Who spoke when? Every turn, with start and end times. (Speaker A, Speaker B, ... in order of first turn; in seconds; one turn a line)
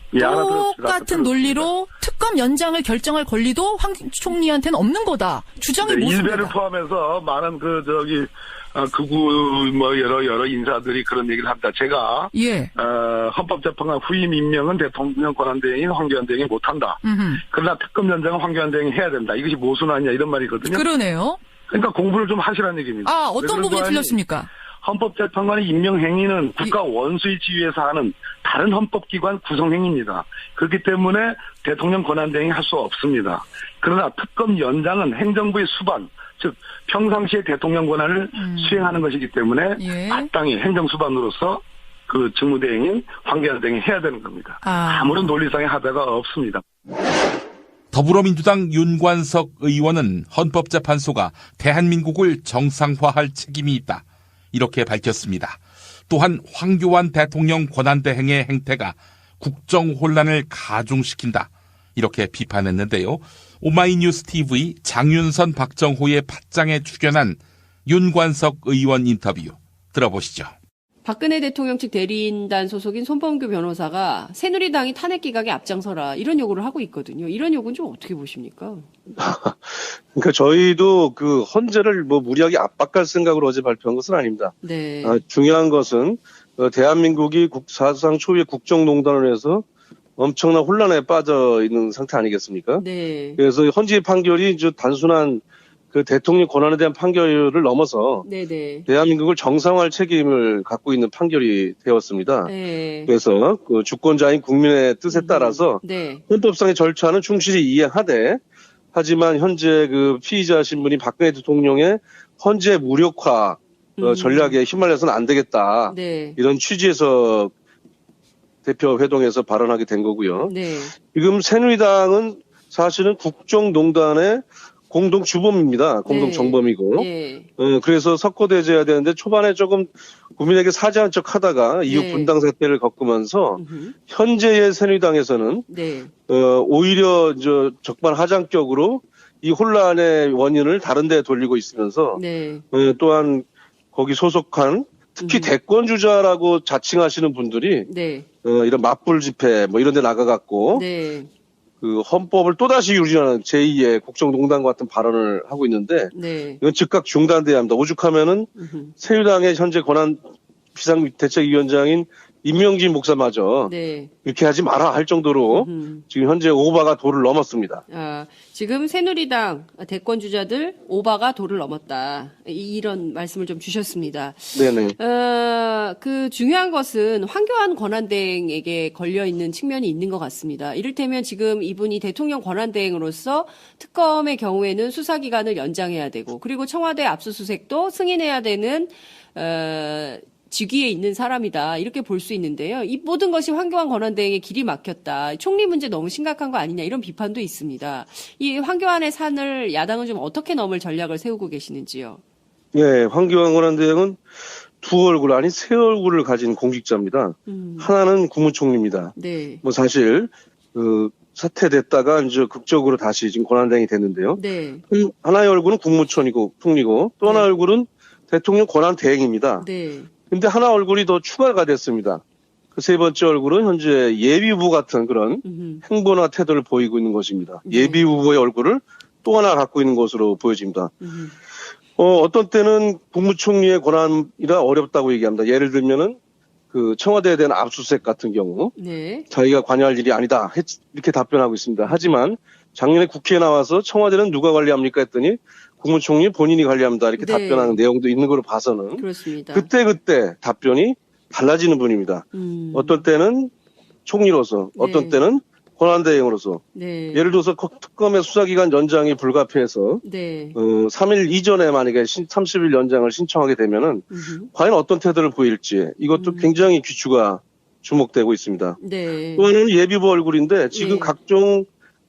Speaker A: 0.1-1.7
Speaker B: 0.1-6.5
Speaker A: 5.8-20.8
Speaker B: 12.3-12.7
Speaker B: 17.0-17.4
Speaker B: 20.6-21.4
Speaker A: 21.7-24.2
Speaker B: 23.0-24.5
Speaker A: 24.8-46.6
Speaker B: 38.3-38.9
Speaker B: 39.8-40.3
Speaker B: 44.6-45.2
Speaker C: 47.9-70.5
Speaker D: 71.0-78.9
Speaker E: 79.1-89.6
Speaker D: 84.6-85.2
Speaker E: 90.2-92.8
Speaker D: 92.8-93.4
Speaker E: 93.4-98.3
Speaker D: 98.2-98.9
Speaker E: 98.9-102.5
Speaker D: 102.4-103.1
Speaker E: 103.1-108.4
Speaker D: 105.1-106.2
Speaker E: 108.9-117.5
Speaker D: 114.0-114.6
Speaker D: 115.9-116.4
Speaker E: 118.6-135.7
Speaker D: 120.4-121.0
Speaker D: 126.0-127.5
Speaker D: 131.8-132.3
Speaker D: 133.5-134.0
Speaker D: 135.7-136.2
Speaker E: 136.3-147.9
Speaker D: 142.1-142.6
Speaker D: 145.2-145.5
Speaker D: 147.9-148.3
Speaker E: 148.4-150.8
Speaker D: 150.7-151.3
Speaker E: 151.8-160.2
Speaker D: 156.1-156.6
Speaker D: 158.5-159.0
Speaker E: 160.7-163.7
Speaker D: 163.6-164.2
Speaker E: 164.2-167.8
Speaker D: 165.5-166.1
Speaker D: 167.9-202.2
Speaker E: 174.6-174.9
Speaker E: 202.7-204.2
Speaker E: 204.8-219.7
Speaker D: 207.5-207.9
Speaker D: 209.1-209.6
Speaker D: 214.3-214.8
Speaker D: 217.2-217.5
Speaker D: 219.6-220.2
Speaker E: 220.2-222.2
Speaker E: 222.8-230.9
Speaker D: 225.4-225.8
Speaker D: 227.6-228.0
Speaker D: 231.0-231.3
Speaker E: 232.0-236.2
Speaker E: 236.7-238.7
Speaker D: 238.8-239.3
Speaker E: 239.3-253.5
Speaker D: 241.8-242.2
Speaker D: 247.2-247.8
Speaker D: 249.0-249.7
Speaker D: 252.3-253.1
Speaker E: 254.1-260.0
Speaker D: 254.7-255.3
Speaker D: 256.7-257.3
Speaker D: 260.0-260.6
Speaker E: 260.6-268.8
Speaker D: 264.1-264.5
Speaker D: 266.1-266.7
Speaker D: 268.8-269.5
Speaker E: 269.4-271.7
Speaker D: 270.7-271.2